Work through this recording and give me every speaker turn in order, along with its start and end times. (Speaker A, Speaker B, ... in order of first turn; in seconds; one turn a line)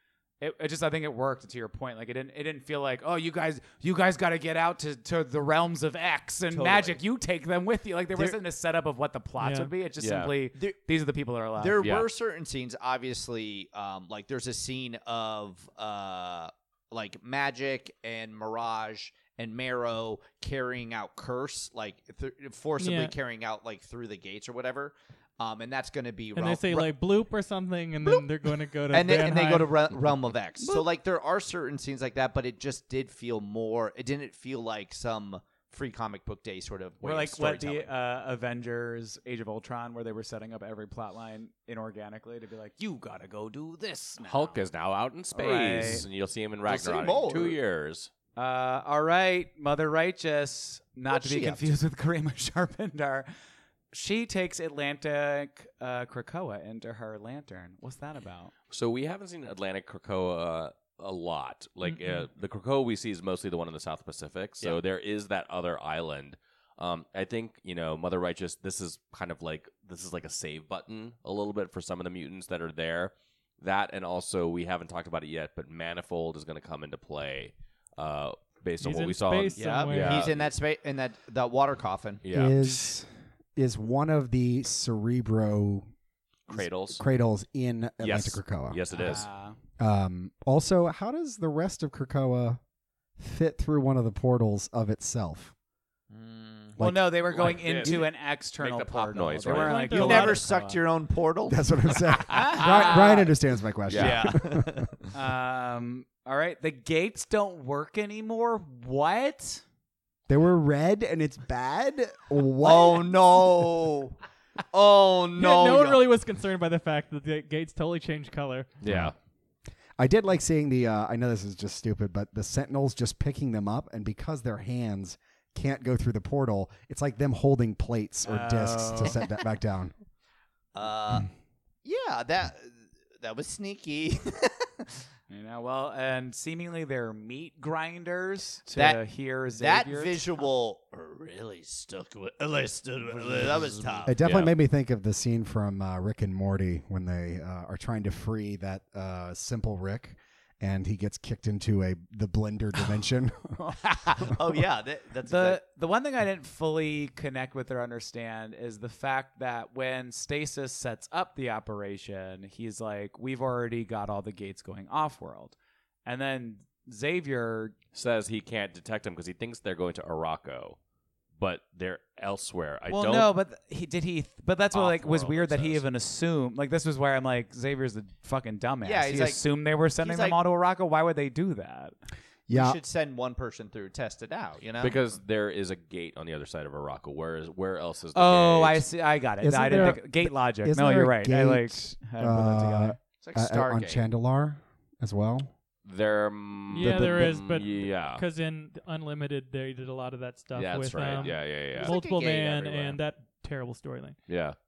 Speaker A: 0.4-11.8
Speaker B: 6.5-7.0
Speaker C: 9.4-9.7
Speaker D: 10.0-10.3
Speaker B: 11.6-26.9
Speaker D: 11.8-12.1
Speaker C: 22.8-23.1
Speaker C: 26.4-29.9
Speaker B: 28.0-28.3
Speaker B: 28.9-37.9
Speaker A: 37.0-44.6
Speaker D: 44.2-48.1
Speaker A: 45.3-46.1
Speaker B: 46.7-47.6
Speaker A: 48.4-53.3
Speaker B: 51.1-51.7
Speaker A: 53.9-58.5
Speaker D: 58.7-80.4
Speaker C: 61.9-62.3
Speaker C: 78.8-80.3
Speaker B: 79.6-82.2
Speaker D: 82.2-82.8
Speaker E: 82.3-85.9
Speaker D: 86.5-87.0
Speaker E: 86.5-89.1
Speaker D: 88.0-89.3
Speaker A: 88.9-89.6
Speaker E: 89.8-92.6
Speaker E: 93.2-95.5
Speaker B: 96.1-96.8
Speaker E: 96.8-98.0
Speaker A: 96.8-100.8
Speaker D: 97.3-99.9
Speaker C: 99.5-100.4
Speaker B: 99.9-103.2
Speaker E: 101.5-104.9
Speaker A: 102.3-103.3
Speaker D: 103.9-104.3
Speaker B: 103.9-105.0
Speaker A: 105.1-109.6
Speaker E: 110.3-113.1
Speaker B: 112.6-114.2
Speaker B: 114.7-116.0
Speaker C: 115.3-118.7
Speaker D: 118.8-119.2
Speaker E: 118.9-119.1
Speaker E: 120.0-129.9
Speaker A: 128.2-129.2
Speaker B: 130.7-131.3
Speaker B: 131.8-135.0
Speaker A: 135.3-140.3
Speaker B: 138.7-144.2
Speaker A: 143.1-144.1
Speaker E: 144.1-153.6
Speaker D: 144.2-144.5
Speaker B: 153.9-155.6
Speaker A: 155.3-167.8
Speaker D: 167.9-170.8
Speaker D: 171.4-173.3
Speaker A: 172.9-182.0
Speaker D: 174.7-175.8
Speaker B: 178.8-179.4
Speaker B: 180.0-180.4
Speaker E: 182.5-182.8
Speaker B: 182.5-185.0
Speaker D: 184.8-188.9
Speaker A: 188.1-193.0
Speaker E: 189.4-195.5
Speaker B: 193.2-194.0
Speaker D: 195.8-198.2
Speaker C: 196.7-204.2
Speaker E: 196.8-197.3
Speaker D: 200.6-202.0
Speaker B: 201.8-203.0
Speaker D: 204.3-204.6